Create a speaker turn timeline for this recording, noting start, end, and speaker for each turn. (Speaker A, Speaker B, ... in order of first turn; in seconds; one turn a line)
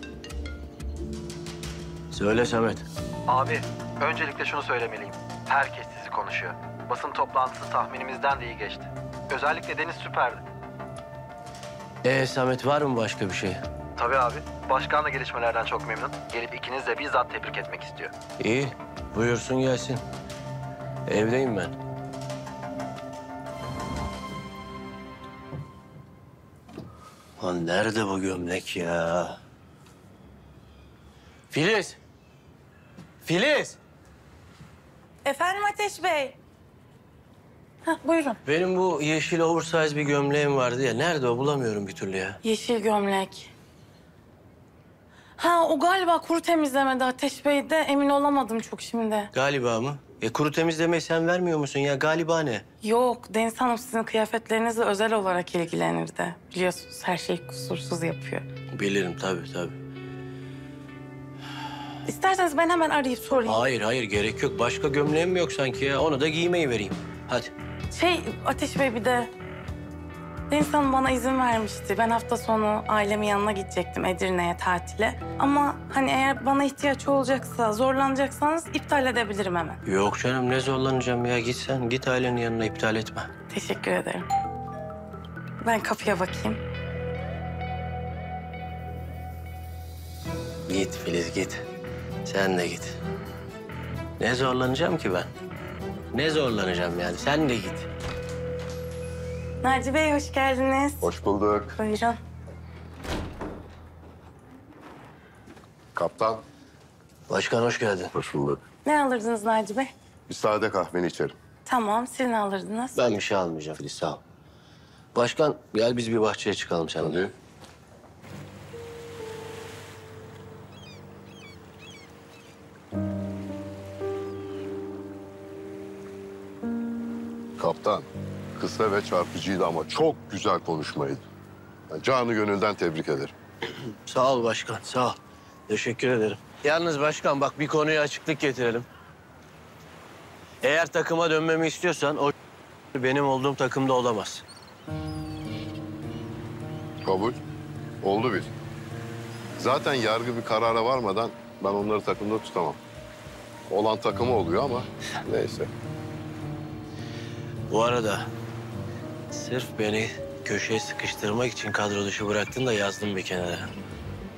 Speaker A: 2.1-2.9
Speaker B: 3.3-10.4
Speaker A: 12.0-13.6
Speaker B: 14.0-18.1
Speaker A: 18.4-20.0
Speaker A: 21.1-21.8
Speaker A: 27.4-29.4
Speaker A: 31.5-32.0
Speaker A: 33.2-33.8
Speaker C: 35.2-36.4
Speaker C: 37.9-38.4
Speaker A: 38.5-42.4
Speaker C: 42.4-43.5
Speaker C: 45.4-49.3
Speaker A: 49.3-52.6
Speaker C: 52.8-58.5
Speaker A: 58.7-59.8
Speaker C: 62.0-63.6
Speaker A: 63.5-67.5
Speaker C: 67.9-69.3
Speaker C: 70.5-79.8
Speaker A: 79.8-83.3
Speaker C: 83.5-84.3
Speaker C: 85.6-86.6
Speaker A: 90.7-91.6
Speaker A: 92.2-93.0
Speaker A: 94.2-95.3
Speaker A: 96.1-97.9
Speaker C: 99.6-101.1
Speaker D: 101.0-101.8
Speaker C: 101.7-102.2
Speaker D: 106.0-106.4
Speaker A: 107.3-108.1
Speaker D: 108.1-108.6
Speaker C: 108.8-109.9
Speaker D: 110.3-111.4
Speaker C: 111.7-113.0
Speaker A: 113.0-114.2
Speaker A: 115.2-117.2
Speaker D: 117.0-117.3
Speaker D: 127.6-131.2
Speaker D: 131.9-133.3
Speaker A: 133.9-138.9
Speaker A: 140.6-142.3
Speaker A: 142.9-144.4
Speaker D: 147.0-147.4
Speaker D: 148.0-148.5
Speaker D: 149.6-152.8
Speaker D: 153.7-155.7
Speaker A: 157.7-158.3
Speaker A: 159.3-163.7